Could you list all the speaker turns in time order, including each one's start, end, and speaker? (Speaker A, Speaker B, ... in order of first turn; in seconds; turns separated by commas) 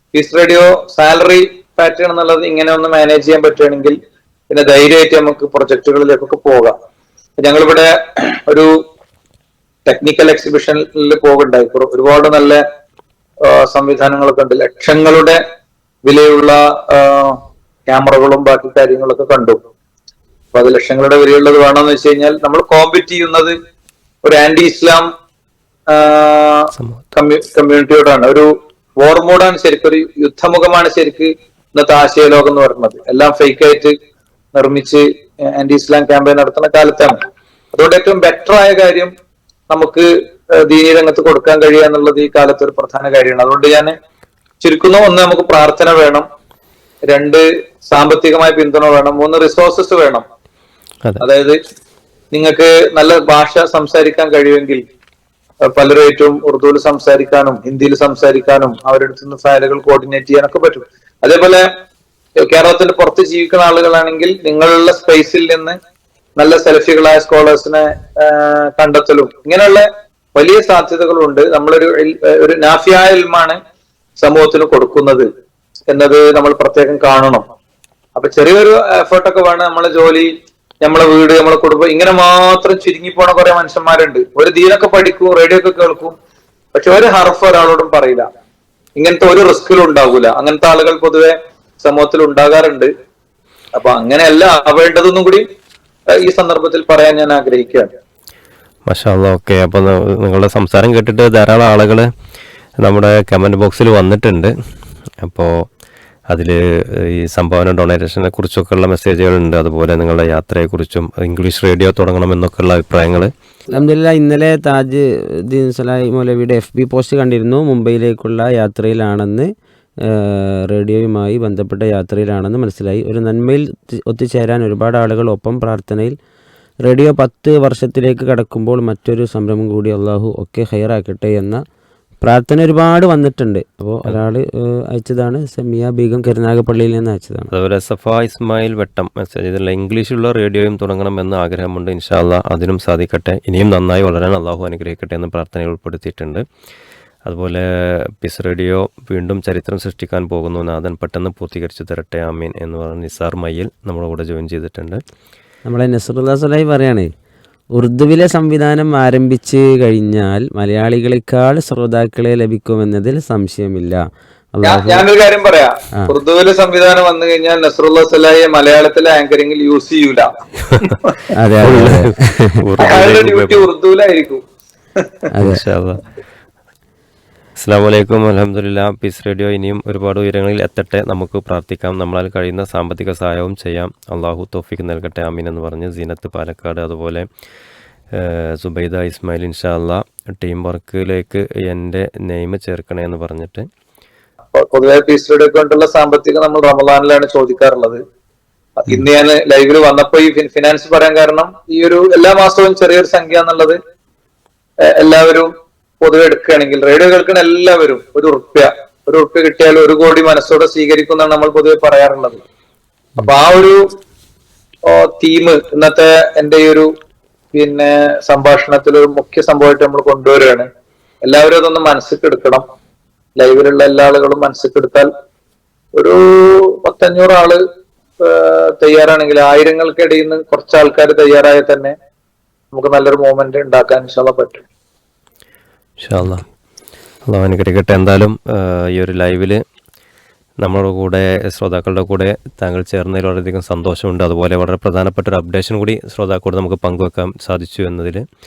Speaker A: 0.1-4.0, Speaker A: 4.5-6.7, Speaker A: 7.4-7.9, Speaker A: 9.8-12.6, Speaker A: 13.5-15.4, Speaker A: 16.1-17.4, Speaker A: 17.9-19.6, Speaker A: 20.5-23.5, Speaker A: 24.2-25.1, Speaker A: 25.9-28.5, Speaker A: 29.0-33.9, Speaker A: 34.5-37.2, Speaker A: 37.7-39.1, Speaker A: 39.7-40.1, Speaker A: 40.6-43.9, Speaker A: 44.6-46.2, Speaker A: 47.1-50.2, Speaker A: 51.2-51.6, Speaker A: 52.3-54.8, Speaker A: 55.7-61.6, Speaker A: 62.5-65.8, Speaker A: 66.4-73.6, Speaker A: 74.2-75.3, Speaker A: 75.9-77.4, Speaker A: 78.2-80.3, Speaker A: 80.8-86.1, Speaker A: 86.7-88.2, Speaker A: 89.0-92.9, Speaker A: 93.8-95.4, Speaker A: 96.3-97.9, Speaker B: 98.9-102.1, Speaker B: 102.8-104.5, Speaker B: 105.2-105.5, Speaker B: 106.3-113.3, Speaker C: 113.7-119.5, Speaker C: 120.1-126.2, Speaker C: 126.8-131.6, Speaker C: 132.2-137.5, Speaker B: 137.5-146.4, Speaker B: 147.2-147.6, Speaker B: 148.2-155.0, Speaker C: 155.7-157.1, Speaker C: 157.7-164.0, Speaker C: 164.5-165.1, Speaker A: 164.6-171.1, Speaker C: 171.3-172.4, Speaker B: 171.6-173.7, Speaker A: 172.8-174.4, Speaker C: 175.3-175.6, Speaker B: 175.4-176.0, Speaker B: 177.6-187.2, Speaker B: 188.2-193.6, Speaker A: 194.5-198.0, Speaker A: 198.8-203.8, Speaker A: 205.0-205.5, Speaker A: 206.0-212.4, Speaker A: 213.2-213.8, Speaker A: 214.9-216.9, Speaker A: 217.5-220.7, Speaker A: 221.2-222.6, Speaker A: 223.4-225.1, Speaker A: 226.0-227.6, Speaker A: 228.2-231.9, Speaker A: 232.7-234.6, Speaker B: 236.0-236.4, Speaker B: 237.3-239.6, Speaker B: 240.6-248.2